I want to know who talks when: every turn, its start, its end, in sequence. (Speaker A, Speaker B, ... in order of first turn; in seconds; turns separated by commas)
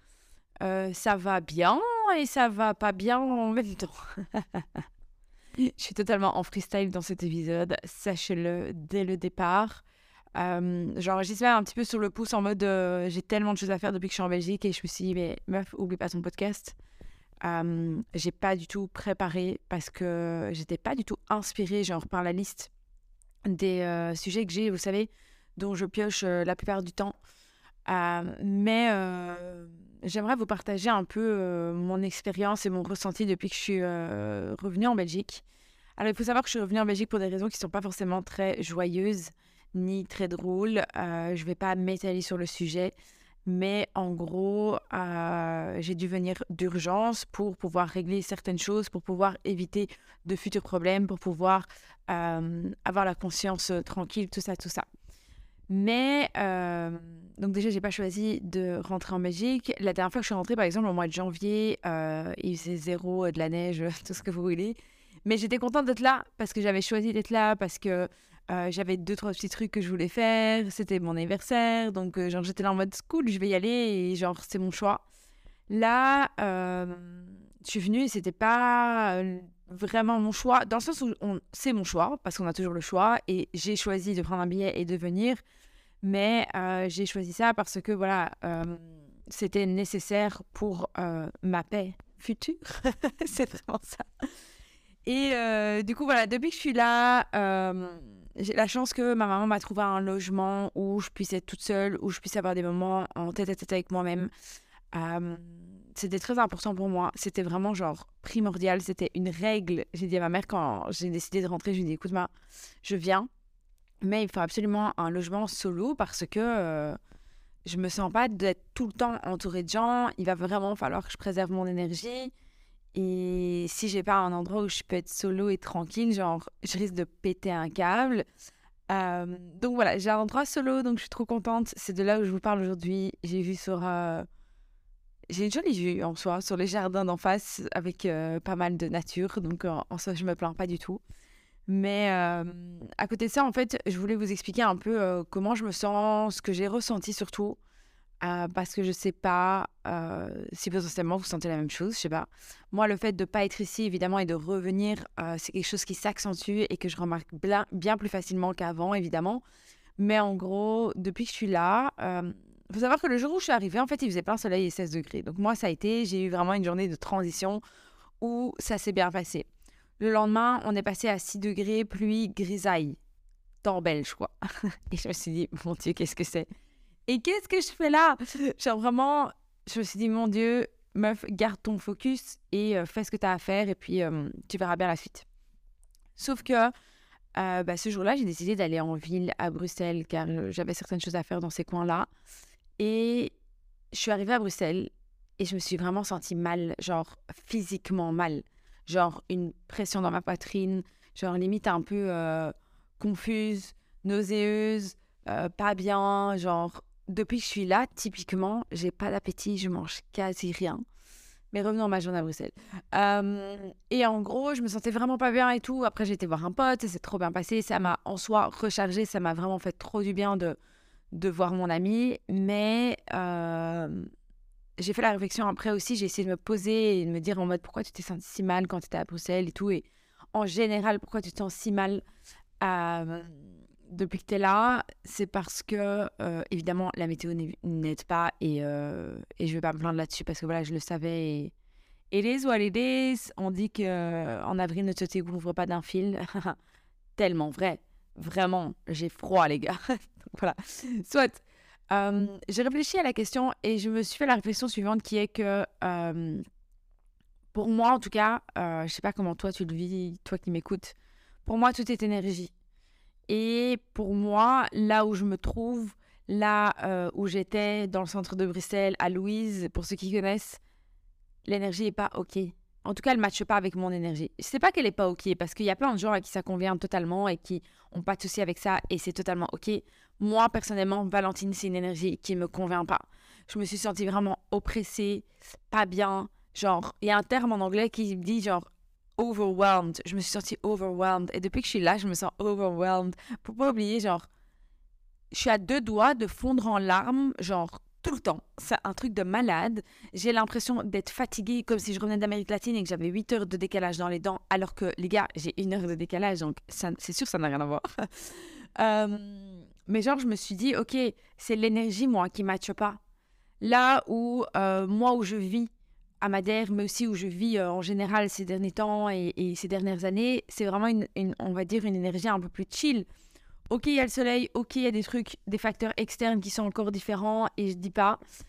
Speaker A: 0.6-4.8, Speaker A: 5.6-9.8, Speaker A: 10.4-16.8, Speaker A: 17.4-22.7, Speaker A: 23.5-27.2, Speaker A: 27.9-35.4, Speaker A: 36.0-42.9, Speaker A: 43.5-54.9, Speaker A: 55.7-75.0, Speaker A: 75.7-85.4, Speaker A: 86.0-94.1, Speaker A: 95.0-104.3, Speaker A: 104.9-112.3, Speaker A: 112.8-113.3, Speaker A: 114.0-117.0, Speaker A: 117.7-122.3, Speaker A: 122.9-128.2, Speaker A: 128.9-134.3, Speaker A: 135.3-141.0, Speaker A: 141.7-147.6, Speaker A: 148.2-159.4, Speaker A: 160.0-167.6, Speaker A: 168.2-169.5, Speaker A: 170.0-173.0, Speaker A: 173.6-174.3, Speaker A: 174.9-176.5, Speaker A: 177.1-185.2, Speaker A: 186.2-186.7, Speaker A: 187.3-192.1, Speaker A: 192.8-193.3, Speaker A: 193.9-210.8, Speaker A: 211.5-220.6, Speaker A: 221.1-224.1, Speaker A: 224.8-232.0, Speaker A: 232.6-241.5, Speaker A: 242.1-246.6, Speaker A: 247.2-256.4, Speaker A: 257.5-262.5, Speaker A: 263.3-270.6, Speaker A: 271.4-294.3, Speaker A: 295.3-313.0, Speaker A: 313.6-315.7, Speaker A: 316.2-323.1, Speaker A: 323.7-328.2